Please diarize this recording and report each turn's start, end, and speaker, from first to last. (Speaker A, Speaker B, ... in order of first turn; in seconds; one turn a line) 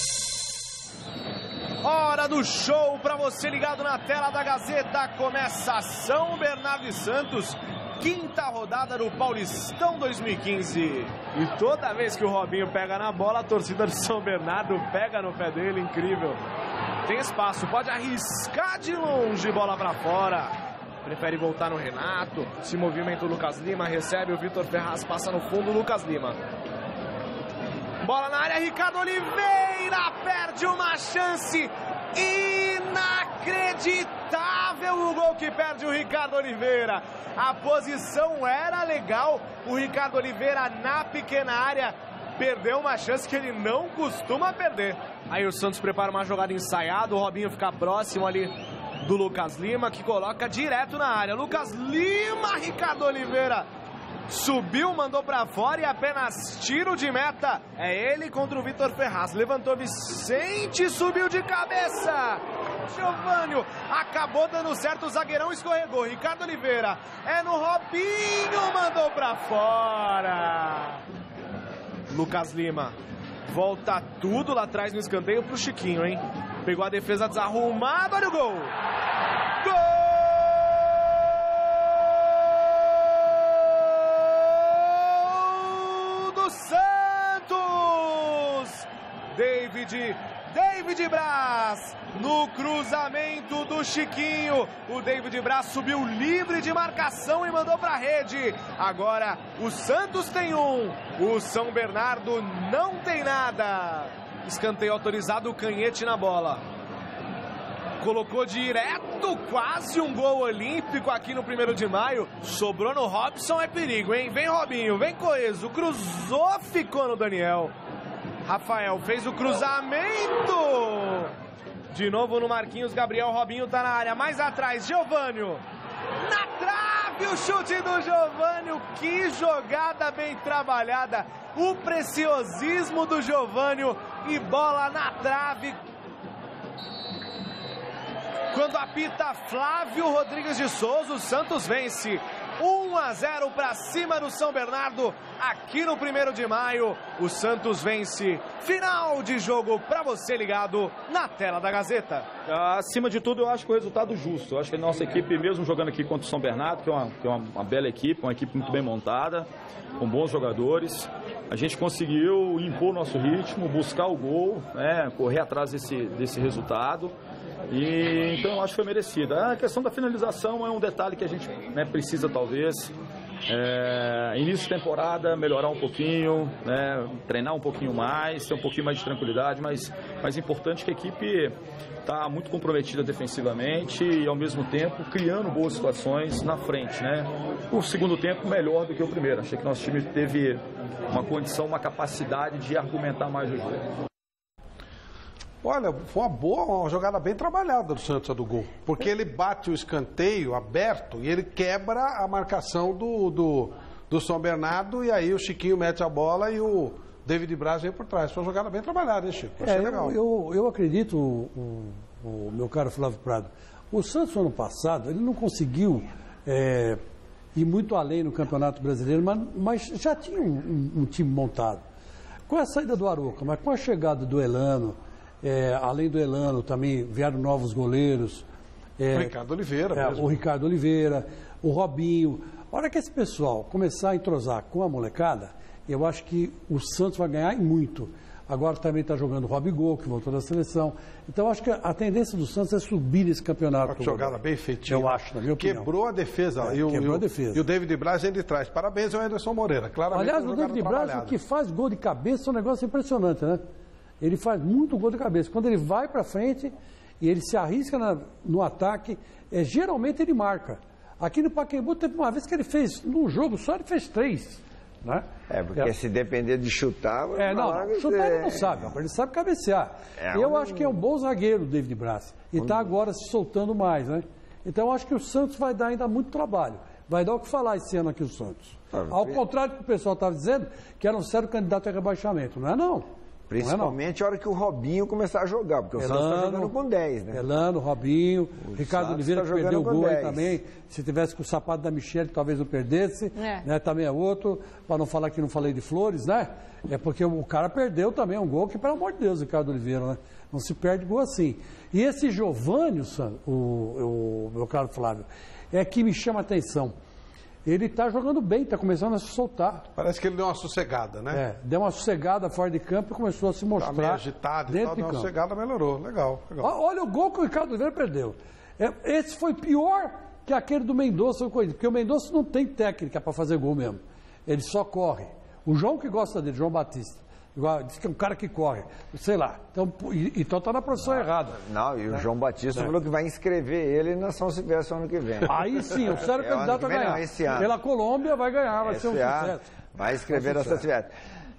Speaker A: 1.8-16.4
Speaker A: 17.1-26.4
Speaker A: 28.1-53.7
Speaker A: 54.3-71.0
Speaker A: 72.1-72.9
Speaker A: 73.5-78.7
Speaker A: 79.6-106.6
Speaker A: 108.0-117.7
Speaker A: 118.5-121.3
Speaker A: 121.9-125.6
Speaker A: 126.2-135.8
Speaker A: 138.5-152.4
Speaker B: 152.5-167.2
Speaker B: 167.7-172.9
Speaker B: 173.5-193.8
Speaker C: 195.6-210.2
Speaker D: 209.6-217.0
Speaker D: 217.6-221.8
Speaker D: 222.5-228.5
Speaker D: 229.0-229.3
Speaker C: 229.1-230.4
Speaker D: 229.9-245.9
Speaker C: 243.9-251.4
Speaker D: 246.6-247.6
Speaker D: 250.1-253.6
Speaker D: 254.2-265.2
Speaker E: 265.5-269.0
Speaker D: 267.4-283.1
Speaker E: 270.2-271.0
Speaker E: 272.6-272.9
Speaker E: 278.9-279.4
Speaker E: 283.5-287.4
Speaker D: 283.6-284.0
Speaker D: 286.0-286.8
Speaker D: 287.3-306.9
Speaker E: 288.6-290.6
Speaker D: 307.6-309.9
Speaker C: 309.9-311.4
Speaker D: 311.3-315.3
Speaker C: 313.8-316.7
Speaker D: 316.6-331.6
Speaker E: 331.1-337.7
Speaker D: 335.5-339.7
Speaker E: 338.8-341.1
Speaker D: 340.3-340.9